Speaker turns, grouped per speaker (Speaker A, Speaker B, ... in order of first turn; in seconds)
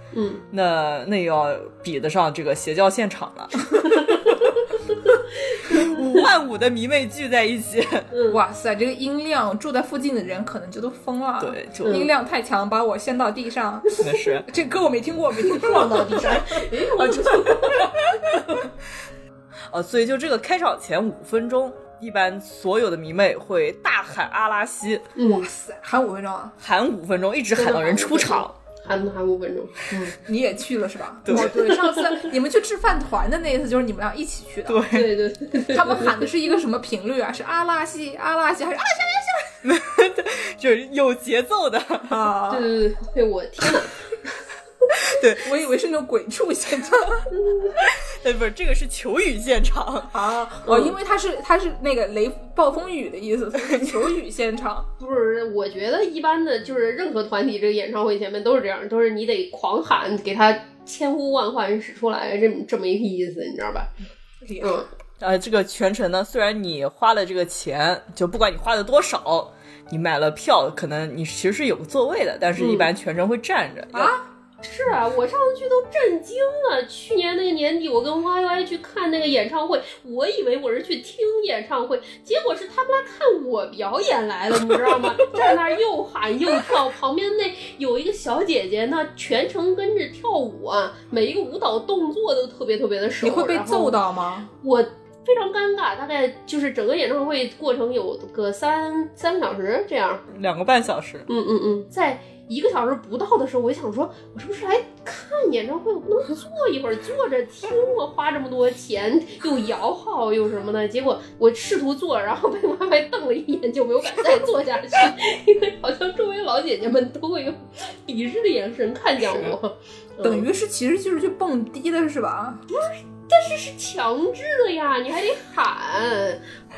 Speaker A: 0.1-0.4, 3.8-6.2, 8.1-8.4, 15.4-18.6, 25.1-25.5, 27.5-30.1, 31.3-32.2, 34.9-36.2, 42.5-43.9, 47.3-47.8, 50.6-50.9, 55.0-63.9, 64.6-64.9, 72.6-72.9, 74.6-94.0, 94.6-100.2, 101.3-120.5, 122.7-126.4
Speaker B: 0.5-4.5, 5.7-8.1, 11.4-12.0, 14.0-14.4, 19.7-25.1, 26.6-28.5, 31.2-31.5, 34.7-35.1, 39.6-42.3, 44.9-45.5, 47.8-50.1, 65.2-74.2, 100.3-101.3
Speaker C: 8.3-17.9, 25.2-26.5, 30.2-34.9, 35.6-39.5, 42.1-42.7, 45.4-47.3, 50.1-54.9, 64.4-64.8, 73.9-74.2, 93.2-94.5, 120.2-122.6